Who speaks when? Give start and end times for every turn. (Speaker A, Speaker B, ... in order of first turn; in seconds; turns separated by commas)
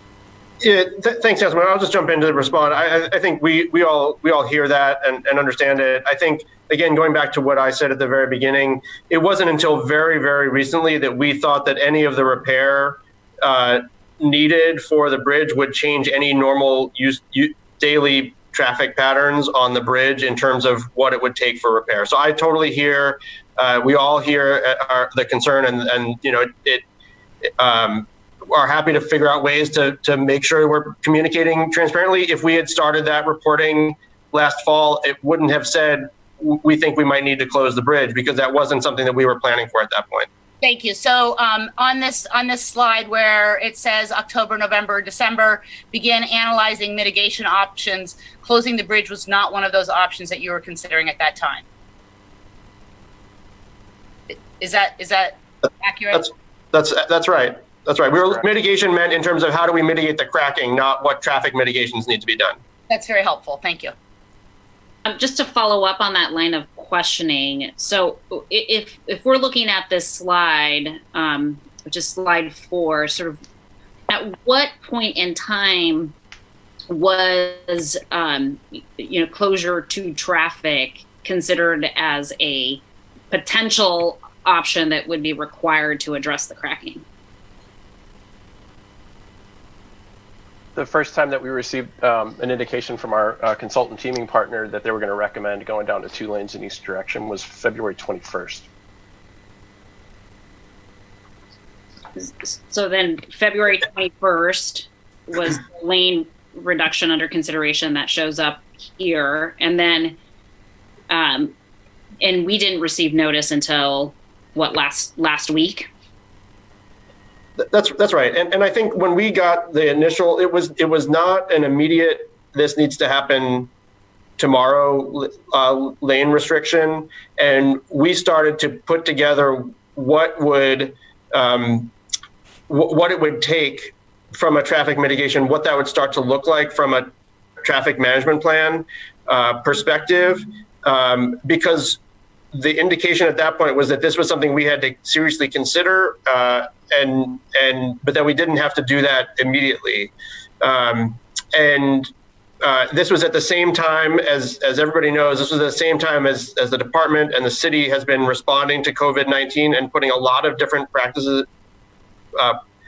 Speaker A: 0.6-26.8, Speaker A: 27.6-40.3, Speaker B: 40.6-51.6, Speaker B: 54.6-56.3, Speaker A: 56.1-62.6, Speaker B: 62.9-63.9, Speaker C: 65.0-73.4, Speaker C: 74.1-76.1, Speaker C: 76.9-87.0, Speaker D: 90.8-98.7, Speaker C: 102.2-110.2, Speaker C: 111.1-111.5, Speaker C: 112.2-115.9, Speaker A: 117.6-123.7, Speaker A: 124.4-131.9, Speaker A: 132.7-137.1, Speaker A: 137.6-142.0, Speaker A: 142.5-161.5